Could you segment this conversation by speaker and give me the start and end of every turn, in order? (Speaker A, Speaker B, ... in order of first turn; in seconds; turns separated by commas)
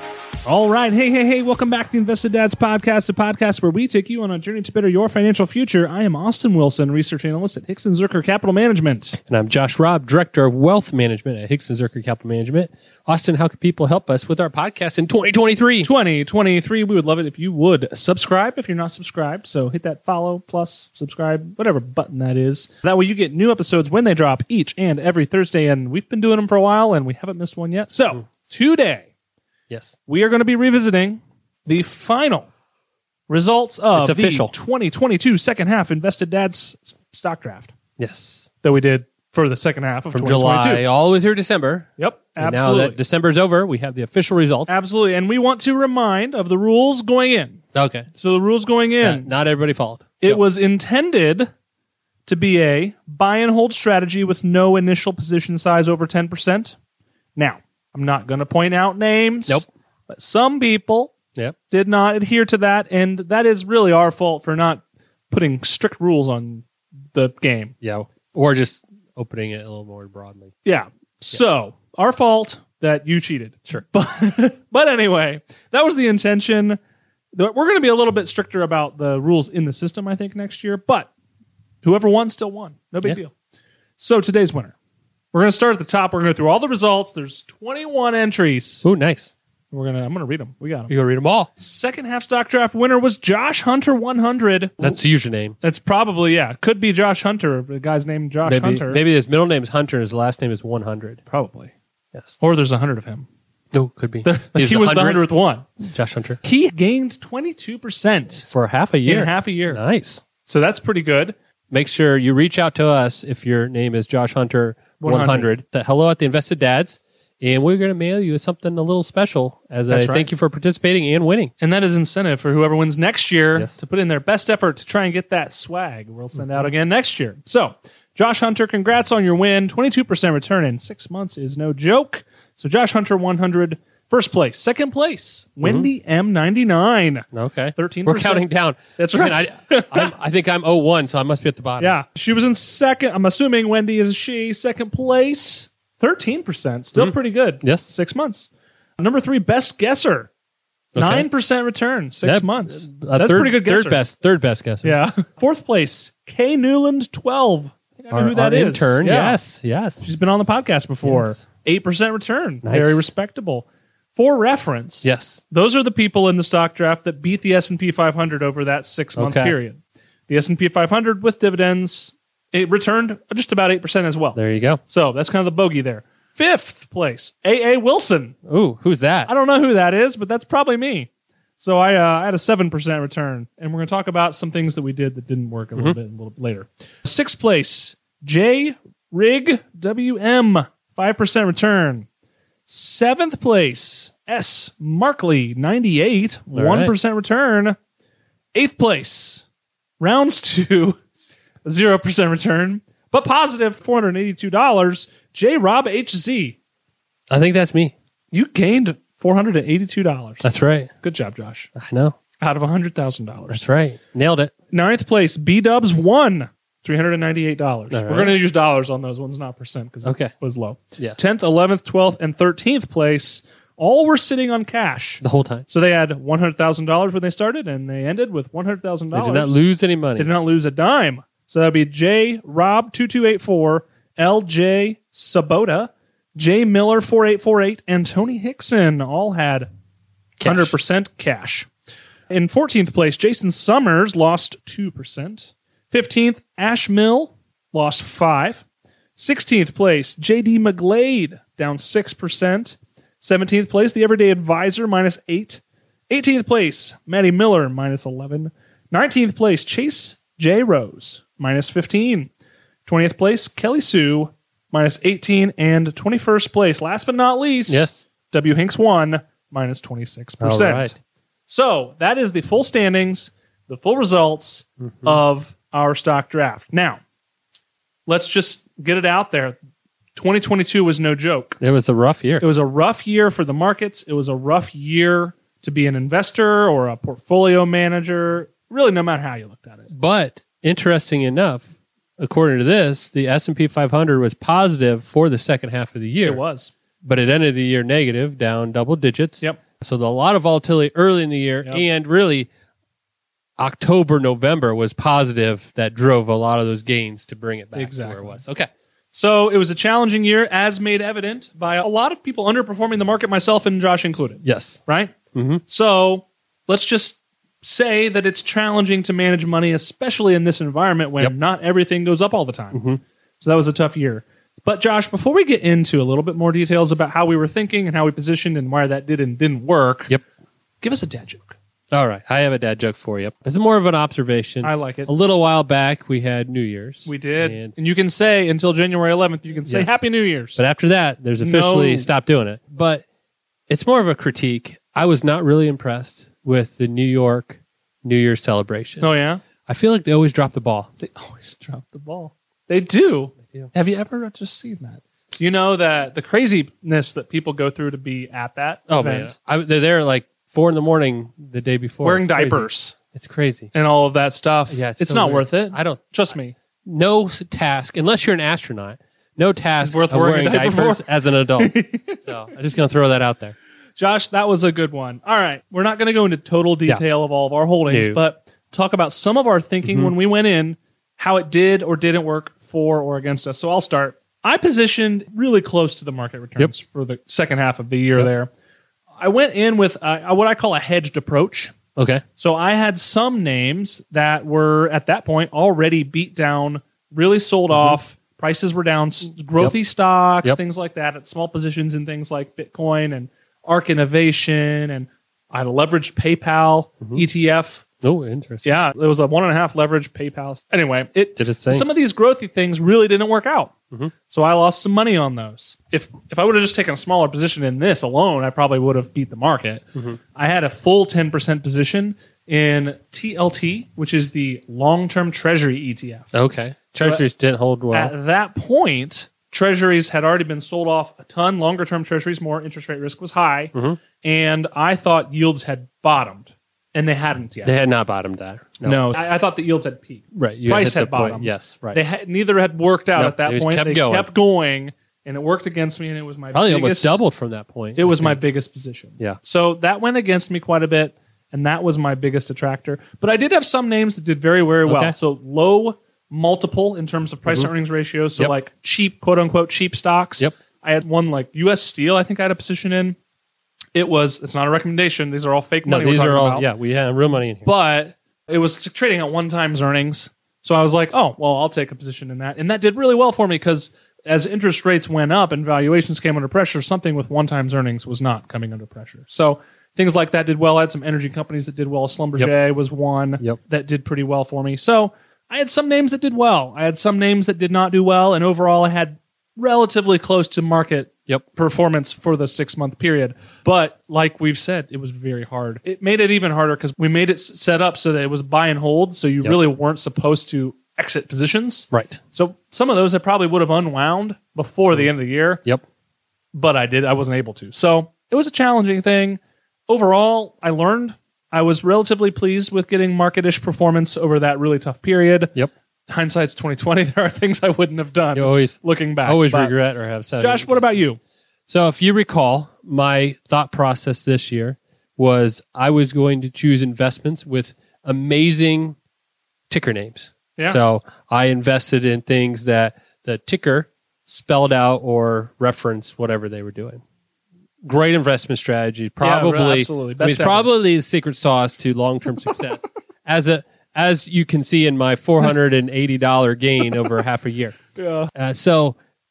Speaker A: 0.5-9.2, Speaker B: 9.3-15.9, Speaker A: 15.8-29.1, Speaker B: 29.7-30.0, Speaker A: 30.1-32.5, Speaker A: 33.3-37.7, Speaker B: 34.0-34.5, Speaker B: 38.0-38.5, Speaker A: 38.6-40.8, Speaker B: 40.1-44.8, Speaker A: 42.0-43.0, Speaker A: 44.7-47.6, Speaker B: 47.8-48.1, Speaker A: 48.1-49.3, Speaker B: 49.0-50.4, Speaker A: 50.2-51.5, Speaker A: 52.3-56.8, Speaker A: 57.4-61.1, Speaker A: 61.7-67.7, Speaker B: 67.8-70.5, Speaker A: 70.7-76.8, Speaker A: 77.3-81.1, Speaker A: 81.8-83.3, Speaker A: 84.0-84.8, Speaker A: 85.3-88.8, Speaker B: 88.8-89.3, Speaker A: 89.7-90.9, Speaker B: 90.9-91.5, Speaker A: 91.6-95.0, Speaker B: 94.8-95.6, Speaker A: 95.6-99.0, Speaker B: 98.5-101.2, Speaker A: 101.3-101.7, Speaker A: 102.4-103.3, Speaker B: 103.7-105.3, Speaker A: 104.2-105.7, Speaker B: 105.9-106.4, Speaker A: 106.4-108.5, Speaker B: 108.5-110.2, Speaker A: 109.1-109.8, Speaker A: 110.5-111.3, Speaker B: 111.7-121.5, Speaker A: 115.0-115.5, Speaker A: 119.9-120.3, Speaker A: 121.6-138.4, Speaker B: 135.6-135.9, Speaker B: 137.3-142.0, Speaker A: 139.0-140.1, Speaker A: 141.8-150.3, Speaker B: 147.0-147.9, Speaker B: 150.9-151.3, Speaker A: 150.9-154.0, Speaker B: 152.2-155.0, Speaker A: 154.8-159.4, Speaker B: 158.1-160.1, Speaker A: 160.0-178.4, Speaker B: 161.0-161.4, Speaker B: 162.6-163.1, Speaker B: 165.0-165.4, Speaker B: 169.2-169.6, Speaker B: 174.3-174.8, Speaker B: 178.5-179.3, Speaker A: 179.3-192.1, Speaker A: 192.7-197.8, Speaker B: 196.5-196.9, Speaker A: 198.5-199.4, Speaker A: 200.0-201.0, Speaker A: 201.7-206.6, Speaker B: 207.3-207.9, Speaker A: 208.3-210.5, Speaker B: 210.4-210.9, Speaker A: 211.0-211.7, Speaker B: 211.8-212.2, Speaker A: 212.4-213.6, Speaker B: 213.5-214.5, Speaker A: 214.7-229.6, Speaker B: 217.9-218.4, Speaker B: 220.1-220.3, Speaker B: 225.2-225.7, Speaker B: 229.1-230.3, Speaker A: 230.2-239.7, Speaker B: 240.4-240.8, Speaker A: 240.4-241.7, Speaker A: 242.3-248.7, Speaker A: 249.2-262.3, Speaker A: 262.9-271.0, Speaker B: 267.7-268.1, Speaker B: 270.4-270.9, Speaker A: 271.5-277.0, Speaker B: 274.9-275.2, Speaker A: 278.1-279.6, Speaker A: 280.2-281.6, Speaker B: 281.6-282.5, Speaker A: 282.4-289.9, Speaker B: 289.9-291.7, Speaker B: 292.2-296.4, Speaker A: 296.2-296.7, Speaker B: 297.0-302.5, Speaker B: 303.6-308.7, Speaker A: 307.7-308.4, Speaker A: 309.1-315.1, Speaker B: 314.4-314.8, Speaker B: 315.3-315.6, Speaker A: 315.7-322.8, Speaker B: 322.7-323.0, Speaker A: 323.4-330.1, Speaker A: 330.8-331.6, Speaker B: 331.9-337.7, Speaker A: 334.6-335.1, Speaker A: 337.1-340.6, Speaker B: 339.6-340.0, Speaker B: 340.6-343.0, Speaker A: 341.4-342.1, Speaker B: 343.7-349.1, Speaker A: 349.0-349.4, Speaker B: 349.7-350.9, Speaker A: 351.0-359.4, Speaker B: 358.9-363.7, Speaker A: 362.0-363.0, Speaker A: 363.7-366.6, Speaker B: 364.7-373.6, Speaker A: 369.8-372.2, Speaker A: 374.0-388.5, Speaker B: 377.9-378.2, Speaker B: 379.8-380.1, Speaker A: 389.2-391.7, Speaker B: 392.0-392.2, Speaker A: 392.4-407.9, Speaker B: 397.7-398.0, Speaker B: 408.0-408.7, Speaker A: 408.6-413.7, Speaker B: 411.4-411.9, Speaker A: 414.3-419.8, Speaker A: 420.4-426.3, Speaker B: 426.3-428.1, Speaker A: 427.0-427.2, Speaker A: 427.9-437.8, Speaker B: 433.7-434.0, Speaker B: 437.6-439.0, Speaker A: 438.8-447.2, Speaker B: 440.3-442.0, Speaker B: 443.1-444.3, Speaker B: 446.5-448.4, Speaker A: 448.0-463.2, Speaker B: 454.9-455.2, Speaker A: 463.9-466.7, Speaker B: 465.9-467.7, Speaker A: 467.6-505.6, Speaker B: 501.9-502.2, Speaker A: 506.5-515.5, Speaker A: 516.1-519.8, Speaker B: 518.4-521.1, Speaker A: 520.4-521.2, Speaker B: 521.7-529.0, Speaker B: 529.7-537.0, Speaker B: 537.8-547.8, Speaker A: 539.2-540.7, Speaker A: 548.0-548.3, Speaker B: 548.4-549.0